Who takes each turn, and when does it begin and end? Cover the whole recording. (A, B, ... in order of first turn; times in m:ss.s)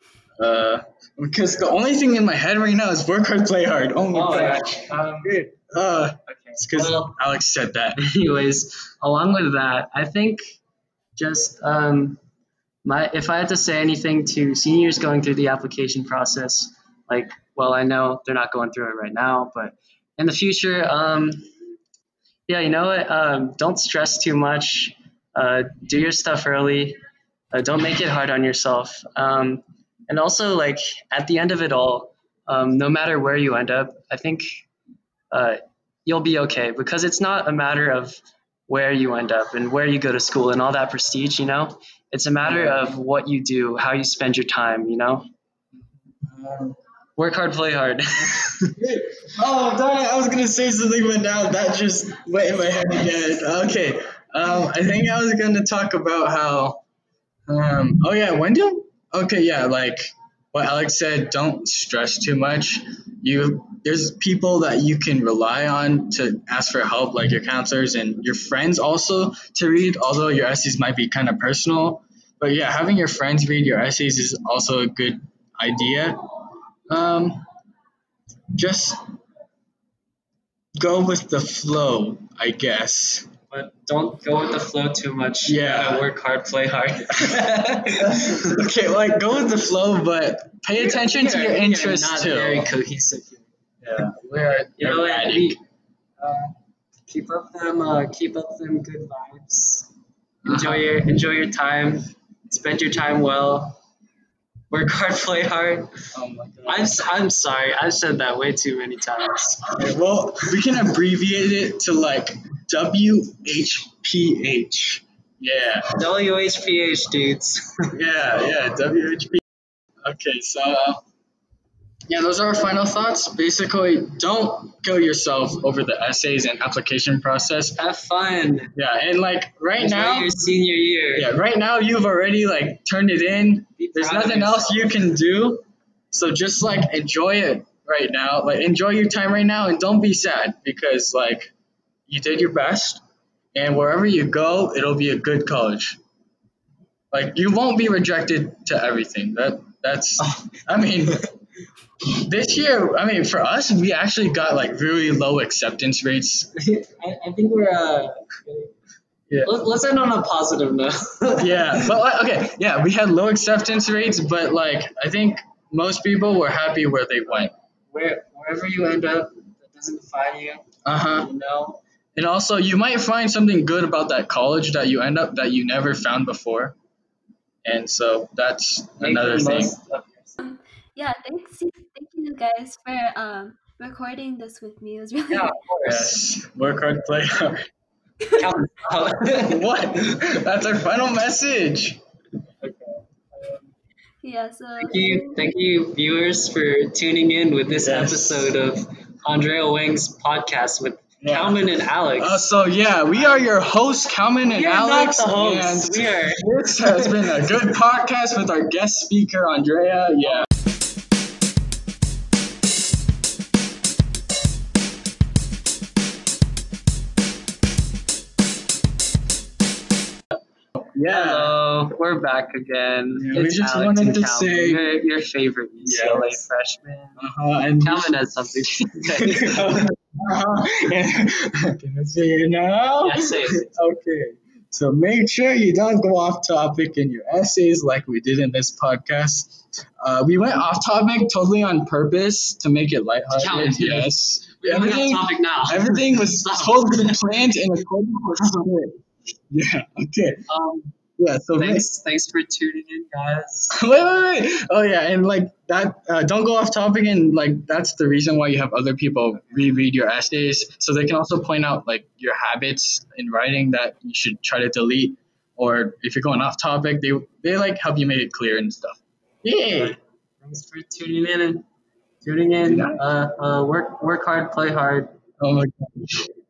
0:00.4-0:08.0 A
0:04.1-0:05.4 B
0:06.3-0:07.2 B
0:08.0-0:10.6 B
0:11.2-0:12.2 B
0:12.8-0:21.4 B
0:22.5-0:27.0 B
0:27.5-0:34.5 B
0:35.3-0:45.3 B
0:42.4-0:42.9 A
0:46.2-0:46.8 A
0:47.2-0:48.8 B
0:48.8-0:56.8 A
0:57.5-1:16.2 A
1:16.9-1:17.4 A
1:18.6-1:19.0 A
1:20.8-1:23.3 A
1:23.5-1:28.6 B
1:25.5-1:26.1 A
1:28.1-1:32.7 A
1:30.8-1:33.5 B
1:33.8-1:35.6 A
1:34.8-1:35.6 B
1:36.2-1:36.5 B
1:37.1-1:39.9 B
1:40.4-1:40.9 A
1:40.5-1:43.8 B
1:44.7-1:45.9 B
1:46.1-1:47.0 A
1:46.7-1:49.7 B
1:49.7-1:55.9 A
1:56.0-1:58.0 B
1:57.9-1:59.4 A
2:00.0-2:01.0 A
2:02.1-2:07.8 A
2:07.8-2:08.7 B
2:08.8-2:10.3 A
2:09.8-2:11.3 B
2:11.2-2:21.5 A
2:13.8-2:15.1 B
2:22.1-2:23.0 A
2:23.6-2:26.0 A
2:27.1-2:31.2 A
2:32.1-2:36.5 A
2:36.6-2:38.7 B
2:39.3-2:39.6 A
2:39.4-2:41.9 B
2:41.4-2:47.5 A
2:47.9-2:51.8 B
2:50.8-2:51.3 A
2:52.2-2:56.8 A
2:57.6-2:59.7 A
2:59.0-3:00.4 B
3:00.4-3:05.6 C
3:05.3-3:06.2 B
3:05.8-3:07.7 A
3:08.4-3:09.6 B
3:09.5-3:12.0 A
3:12.6-3:13.6 B
3:14.2-3:15.4 C
3:14.8-3:22.4 B
3:17.8-3:18.5 A
3:21.2-3:30.5 A
3:24.5-3:27.2 B
3:40.8-3:41.5 A
3:41.1-3:47.3 B
3:43.2-3:44.8 A
3:45.8-3:46.4 A
3:47.2-3:48.1 A
3:47.8-3:49.8 B
3:48.9-4:09.0 A
3:53.0-3:53.7 B
4:03.3-4:07.2 B
4:09.5-4:10.5 A
4:10.5-4:10.9 B
4:11.2-4:11.9 A
4:11.6-4:13.8 B
4:13.7-4:30.0 A
4:29.7-4:31.7 B
4:32.2-4:35.2 B
4:32.7-4:33.0 A
4:35.4-4:36.3 A